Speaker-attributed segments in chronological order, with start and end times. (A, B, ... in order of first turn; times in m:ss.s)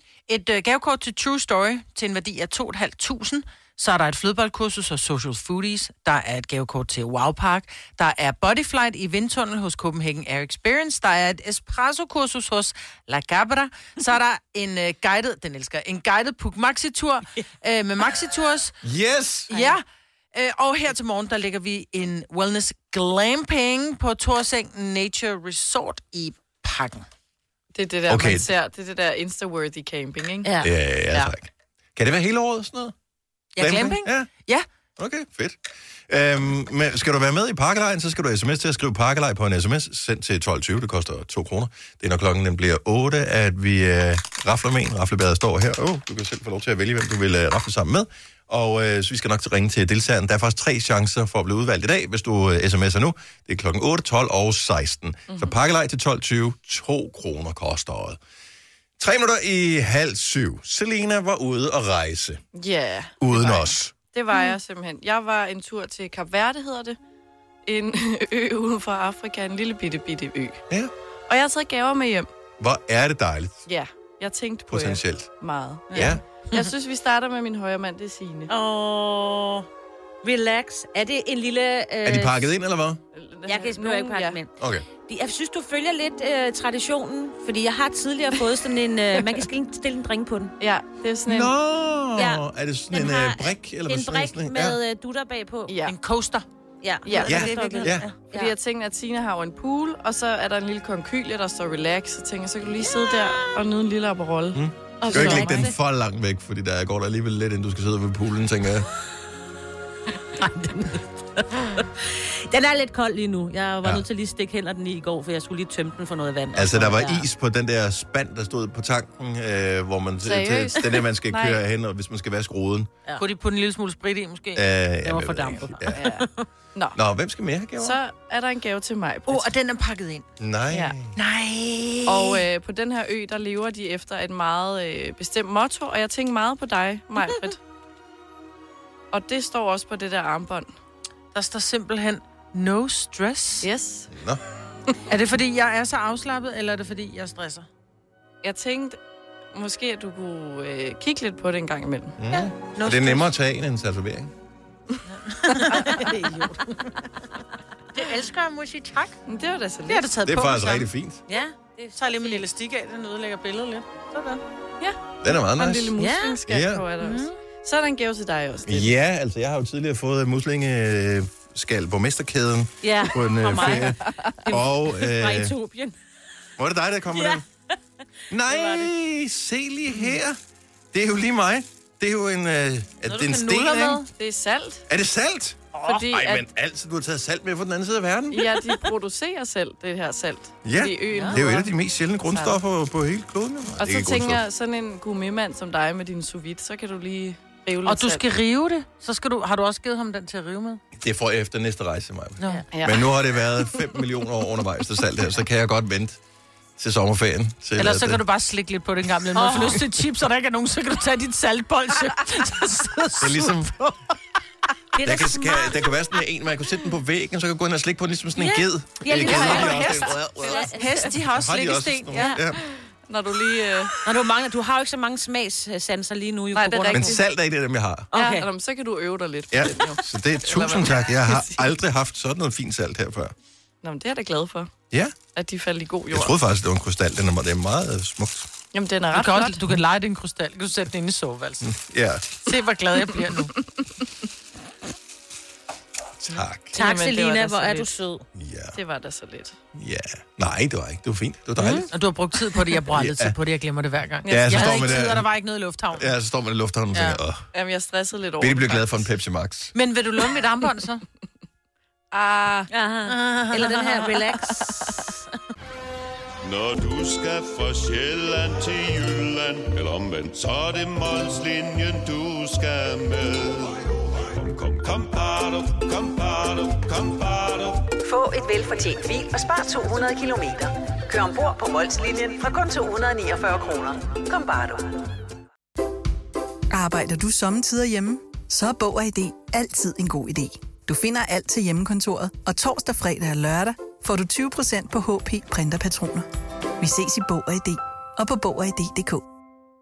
0:00.3-0:18.8 A
0:18.8-0:19.5 B
0:19.5-0:19.8 A
0:20.3-0:27.0 A
0:27.7-0:30.5 C
0:28.1-0:28.5 B
0:30.6-0:32.9 B
0:33.6-0:34.6 A
0:33.6-0:34.3 B
0:35.0-0:58.2 B
0:55.3-0:55.6 C
0:59.0-1:02.4 B
1:02.5-1:07.0 C
1:03.2-1:03.9 B
1:07.6-1:10.6 C
1:11.3-1:12.3 C
1:12.6-1:13.6 B
1:13.7-1:18.5 C
1:14.7-1:15.3 B
1:15.9-1:16.2 B
1:18.5-1:19.7 D
1:20.2-1:22.5 D
1:22.0-1:23.0 B
1:23.1-1:24.4 C
1:23.5-1:30.5 D
1:24.6-1:24.9 B
1:30.6-1:31.5 C
1:31.3-1:34.8 B
1:32.2-1:35.8 D
1:35.7-1:35.9 C
1:35.9-1:36.4 A
1:36.8-1:38.5 D
1:37.0-1:44.6 C
1:37.2-1:38.1 B
1:37.5-1:37.8 A
1:44.5-1:48.9 B
1:45.0-1:45.7 D
1:45.1-1:45.5 C
1:50.4-1:57.2 D
1:56.5-2:02.9 B
2:00.2-2:01.6 C
2:03.2-2:06.1 A
2:04.5-2:06.0 B
2:05.9-2:07.0 C
2:07.0-2:08.0 B
2:07.8-2:09.5 C
2:09.3-2:10.3 A
2:10.4-2:11.1 B
2:11.2-2:12.4 A
2:12.0-2:17.6 C
2:19.1-2:20.7 C
2:21.3-2:23.7 A
2:23.6-2:24.1 C
2:24.1-2:24.4 B
2:25.1-2:27.7 A
2:28.4-2:29.0 C
2:29.5-2:32.2 C
2:32.2-2:34.3 B
2:32.8-2:33.3 A
2:35.1-2:37.1 A
2:37.9-2:39.2 A
2:39.2-2:40.1 C
2:39.9-2:40.9 A
2:40.2-2:41.2 B
2:41.3-2:42.3 D
2:41.9-2:44.4 A
2:44.8-2:48.9 C
2:45.2-2:46.0 B
2:46.0-2:46.4 D
2:46.5-2:46.8 B
2:48.7-2:54.0 B
2:52.8-2:53.9 D
2:54.5-2:55.9 D
2:54.5-2:55.5 B
2:56.6-2:57.4 B
2:58.3-3:00.4 B
2:58.5-2:58.9 D
3:00.9-3:04.0 B
3:03.1-3:04.0 A
3:04.1-3:04.8 C
3:04.9-3:08.5 B
3:05.8-3:06.4 C
3:08.3-3:11.7 C
3:10.6-3:14.4 B
3:12.3-3:12.6 C
3:13.8-3:18.3 C
3:17.9-3:20.8 A
3:20.9-3:26.2 B
3:22.7-3:23.9 C
3:26.8-3:28.2 B
3:27.8-3:34.0 A
3:29.4-3:29.8 D
3:33.2-3:33.7 B
3:35.0-3:35.7 D
3:35.0-3:40.7 B
3:38.4-3:39.9 D
3:39.1-3:42.4 A
3:39.1-3:40.9 C
3:40.4-3:40.8 D
3:41.2-3:42.6 B
3:43.1-3:44.0 C
3:44.0-3:47.2 D
3:46.5-3:47.2 C
3:46.9-3:48.1 B
3:48.1-3:48.5 D
3:48.1-3:51.7 C
3:49.5-3:53.3 B
3:53.8-3:54.7 C
3:55.4-3:56.4 C
3:56.1-3:58.5 B
3:58.7-3:59.6 C
3:59.1-4:01.7 A
4:01.6-4:02.2 B
4:02.4-4:03.5 A
4:06.2-4:06.8 B
4:06.7-4:08.0 C
4:06.7-4:08.2 D
4:08.4-4:08.8 B
4:08.7-4:09.6 C
4:09.7-4:11.9 B
4:11.9-4:16.1 A
4:12.9-4:13.4 B
4:14.2-4:14.9 C
4:14.3-4:15.3 B
4:15.9-4:17.5 B
4:16.9-4:17.2 A
4:17.5-4:19.1 C
4:18.4-4:19.7 B
4:19.7-4:21.0 A
4:22.1-4:22.7 C
4:22.7-4:25.0 D
4:23.1-4:24.2 A
4:26.4-4:37.9 E
4:38.0-4:45.1 F
4:46.7-4:56.3 G
4:56.8-4:59.2 G